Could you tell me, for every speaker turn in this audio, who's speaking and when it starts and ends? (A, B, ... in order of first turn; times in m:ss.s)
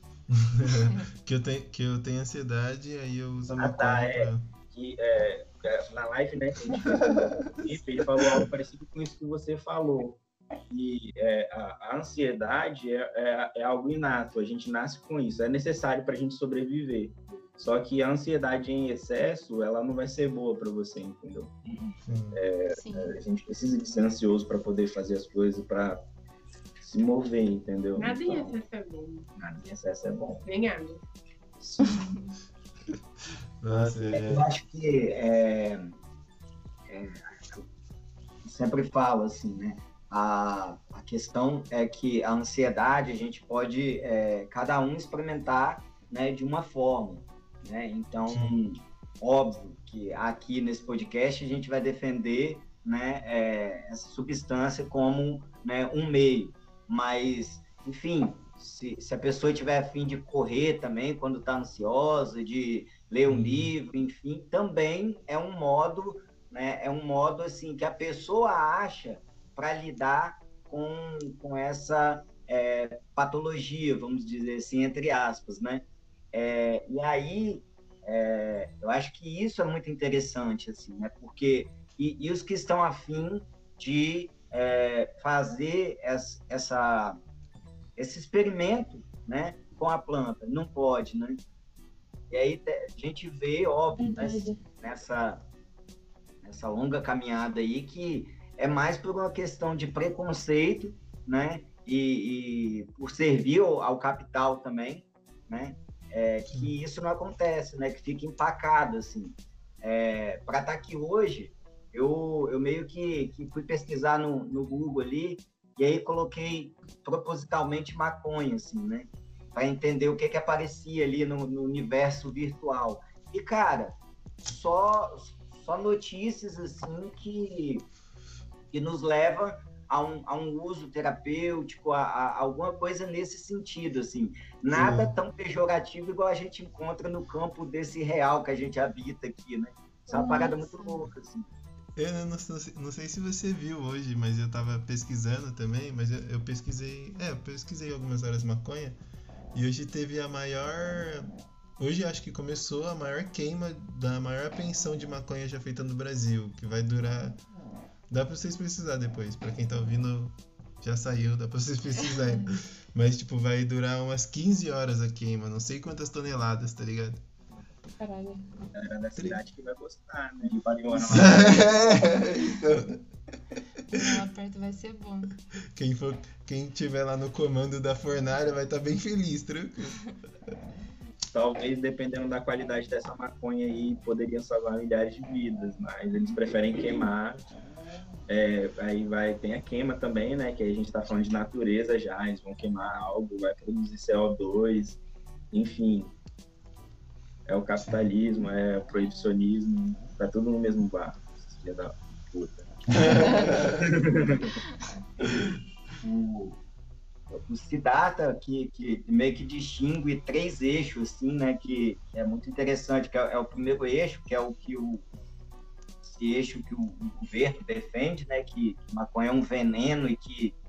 0:00.3-0:04.5 A
0:03.6-0:26.0 B
0:06.9-0:07.5 A
0:22.0-0:22.4 A
0:22.7-0:23.2 C
0:26.8-0:28.6 B
0:27.9-0:29.3 D
0:29.4-0:30.4 B
0:30.4-0:31.0 D
0:31.6-0:32.3 B
0:33.6-0:34.5 A
0:33.8-0:34.2 B
0:34.1-0:35.9 E
0:36.9-0:37.6 E
0:38.4-1:27.2 E
0:48.3-0:48.6 A
1:03.3-1:03.7 A
1:28.0-1:31.4 E
1:32.3-1:35.4 E
1:36.4-2:07.8 E
1:46.5-1:46.7 A
2:08.7-2:21.5 E
2:14.7-2:15.1 A
2:20.1-2:21.0 C
2:22.0-2:29.0 A
2:29.5-2:37.4 A
2:38.1-2:47.2 A
2:48.0-2:48.3 C
2:48.7-2:52.0 B
2:50.9-2:53.0 A
2:53.9-2:55.3 C
2:53.9-2:54.2 A
2:55.7-3:00.0 A
3:01.3-3:07.4 B
3:08.3-3:15.0 B
3:15.5-3:16.1 B
3:17.5-3:24.6 B
3:17.7-3:18.1 A
3:23.0-3:23.7 A
3:26.0-3:26.6 E
3:27.3-3:35.1 E
3:36.0-3:40.5 E